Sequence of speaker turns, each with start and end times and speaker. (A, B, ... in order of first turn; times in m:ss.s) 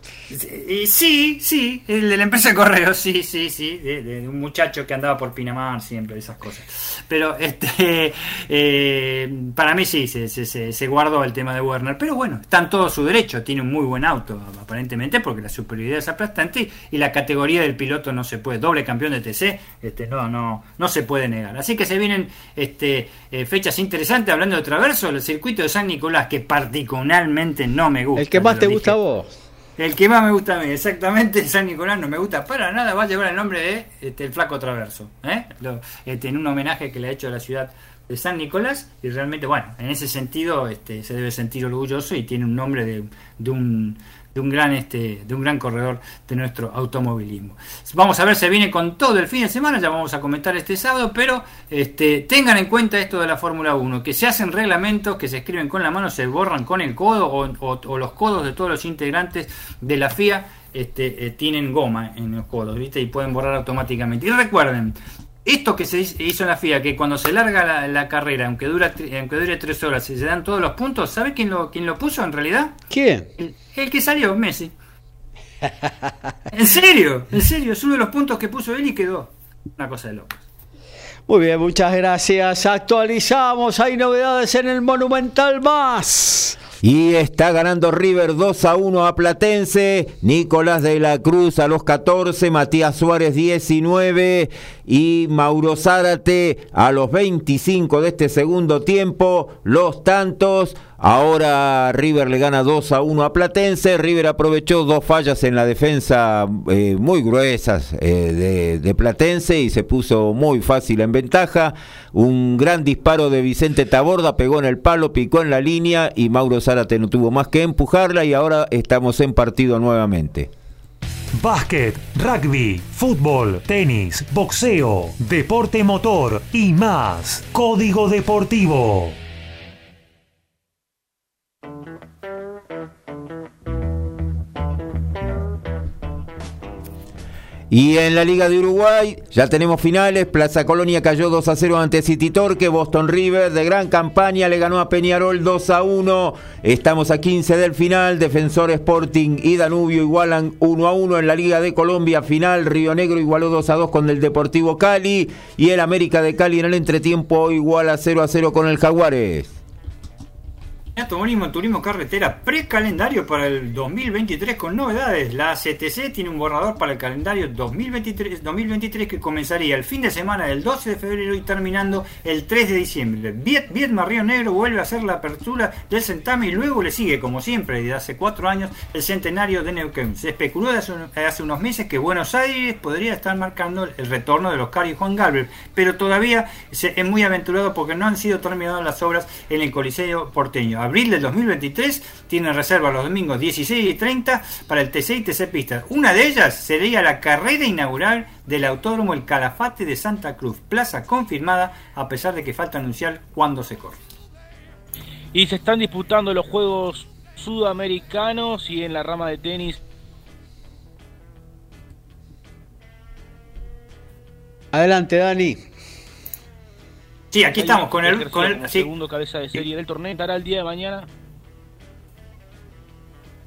0:00.3-0:29.0 A
0:28.2-0:29.3 B
0:29.8-1:12.8 A
1:12.9-1:13.3 B
1:13.4-1:14.7 A
1:16.5-1:20.4 A
1:21.3-1:26.6 B
1:26.8-2:00.5 C
2:01.4-2:09.2 D
2:17.7-2:39.6 C
2:41.0-3:24.0 A
3:25.3-3:29.8 E
3:34.7-3:35.6 B
3:37.3-3:38.9 A
3:37.6-3:41.1 E